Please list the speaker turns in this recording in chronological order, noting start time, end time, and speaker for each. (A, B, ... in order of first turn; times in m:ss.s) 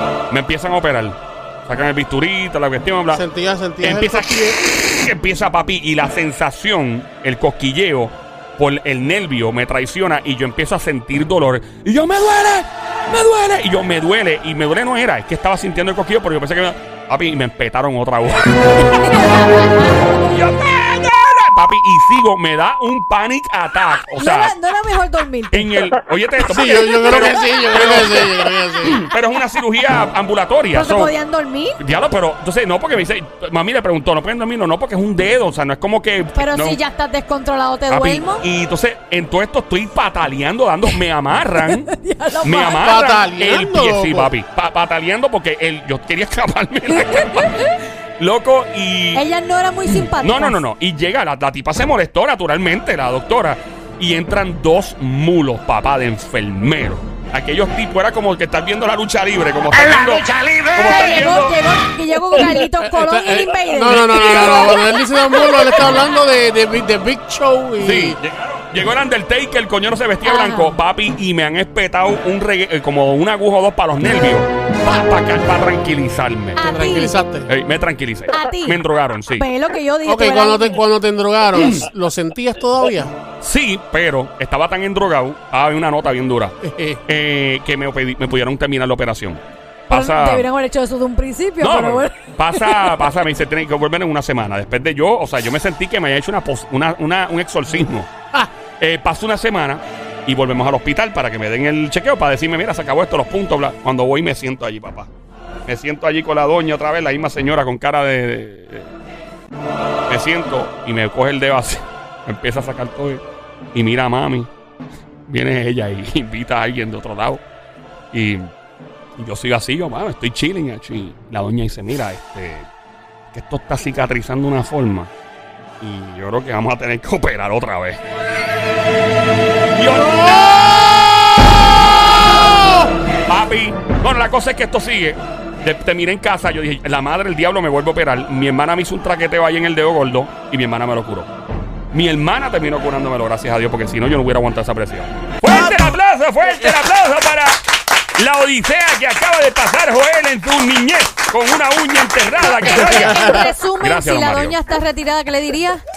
0:00.3-0:03.2 A
0:03.1-0:04.6 B
0:03.8-0:24.5 A
0:18.8-0:20.3 C
0:24.2-0:25.9 C
0:25.5-0:31.1 A
0:26.4-0:29.0 B
0:26.7-0:27.2 C
0:30.7-0:31.8 C
0:31.8-0:36.8 A
0:36.3-0:38.4 C
0:37.9-0:49.2 A
0:41.6-0:42.9 C
0:42.7-0:44.3 B
0:46.9-0:47.7 C
0:49.1-0:50.6 C
0:49.9-1:01.7 A
1:00.8-1:04.9 C
1:02.7-1:08.2 B
1:03.9-1:04.9 A
1:07.8-1:16.7 A
1:10.2-1:10.8 C
1:16.6-1:17.2 C
1:16.6-1:17.5 B
1:17.5-1:19.4 A
1:18.3-1:20.8 C
1:20.0-1:23.1 B
1:21.5-1:21.9 A
1:23.4-1:26.5 A
1:26.6-1:27.0 B
1:27.0-1:30.5 A
1:29.9-1:33.1 C
1:31.6-1:38.1 A
1:38.8-1:45.1 A
1:45.7-1:48.9 A
1:50.1-1:53.2 A
1:53.7-1:54.5 A
1:55.3-1:57.4 A
1:58.1-1:58.5 A
1:59.2-2:02.7 A
2:03.3-2:05.1 A
2:05.8-2:08.0 A
2:09.7-2:11.3 A
2:10.0-2:10.5 B
2:12.1-2:12.5 A
2:12.5-2:12.9 B
2:13.3-2:21.3 A
2:21.9-2:27.6 A
2:25.5-2:25.9 C
2:28.2-2:34.6 A
2:32.4-2:35.8 C
2:32.7-2:33.5 B